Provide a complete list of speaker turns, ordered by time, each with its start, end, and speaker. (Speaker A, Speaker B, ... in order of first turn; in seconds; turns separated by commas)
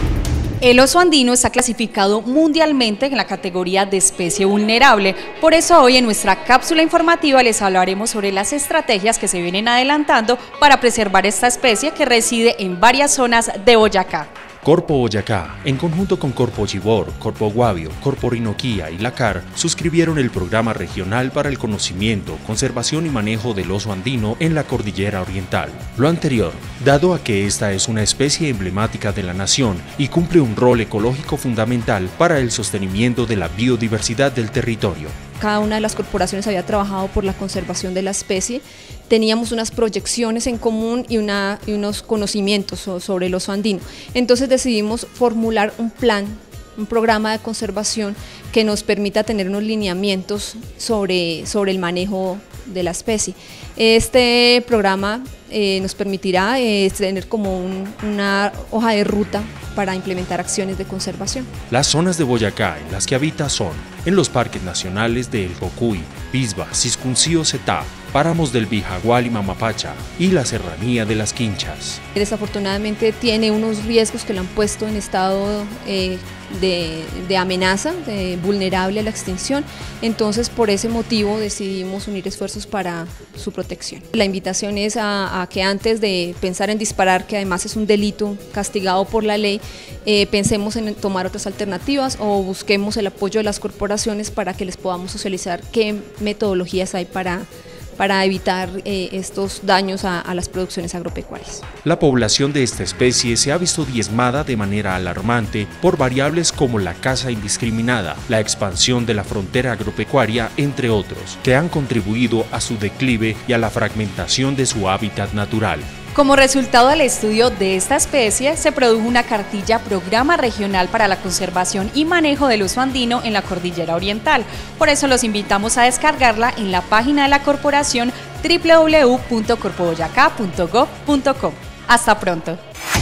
Speaker A: 0.6-14.3, Speaker B: 14.6-35.2, Speaker C: 35.4-61.5, Speaker B: 61.7-72.0, Speaker C: 72.2-97.5, Speaker C: 98.0-101.6, Speaker B: 101.8-115.9, Speaker A: 116.1-132.6